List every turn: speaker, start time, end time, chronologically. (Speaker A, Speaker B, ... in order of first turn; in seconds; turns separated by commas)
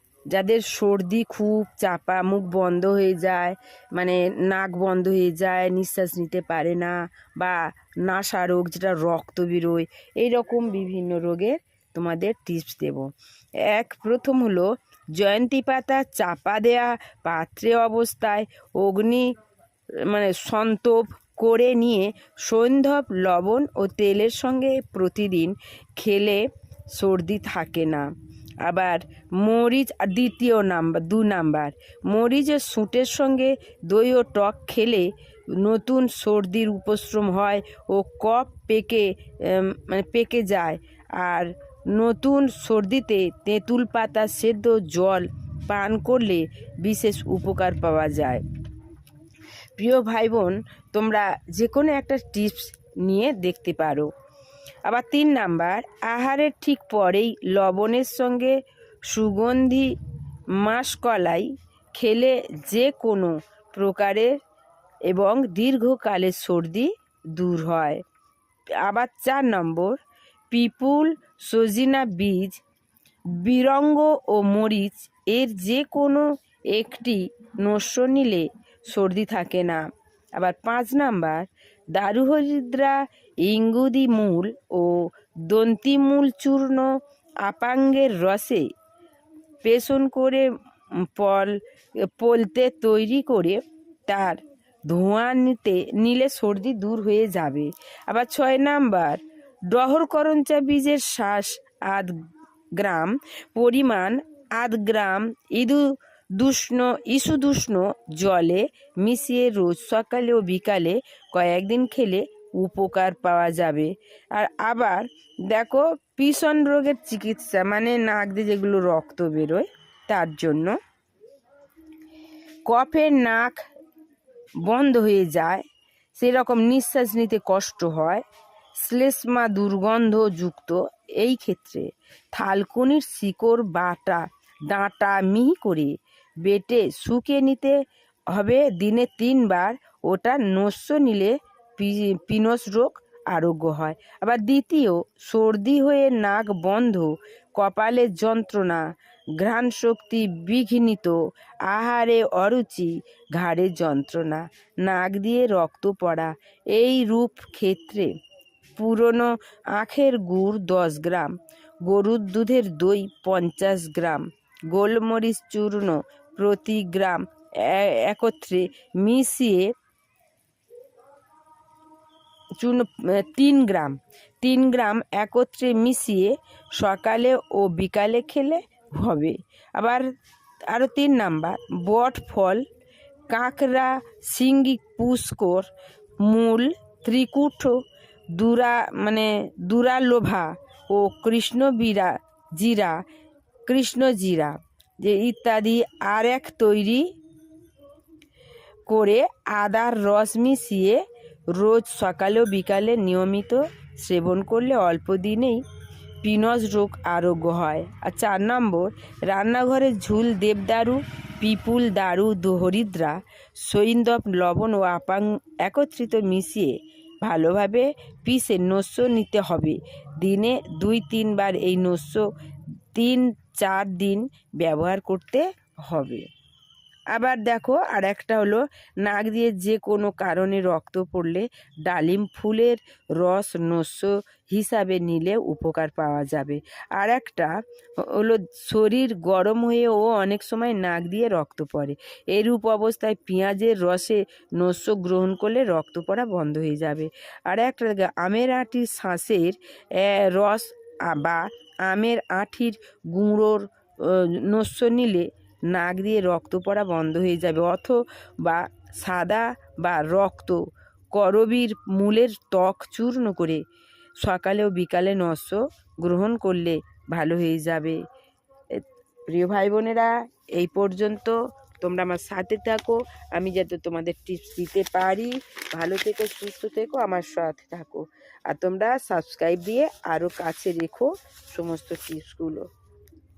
Speaker A: 0.3-13.1, Speaker A: 13.6-19.3, Speaker A: 20.0-26.4, Speaker A: 26.9-48.4, Speaker A: 49.8-54.1, Speaker A: 54.8-59.9, Speaker A: 60.5-64.4, Speaker A: 65.1-68.0, Speaker A: 68.8-72.6, Speaker A: 73.3-86.9, Speaker A: 87.4-88.7, Speaker A: 89.6-102.1, Speaker A: 102.8-120.8, Speaker A: 122.7-123.6, Speaker A: 124.6-128.2, Speaker A: 128.8-137.8, Speaker A: 138.3-148.8, Speaker A: 149.4-158.1, Speaker A: 158.8-169.7, Speaker A: 172.6-180.1, Speaker A: 180.7-182.6, Speaker A: 183.3-187.8, Speaker A: 188.3-193.0, Speaker A: 193.7-197.1, Speaker A: 198.9-205.6, Speaker A: 206.2-222.3, Speaker A: 222.9-226.3, Speaker A: 227.1-263.6, Speaker A: 264.2-268.0, Speaker A: 268.7-282.7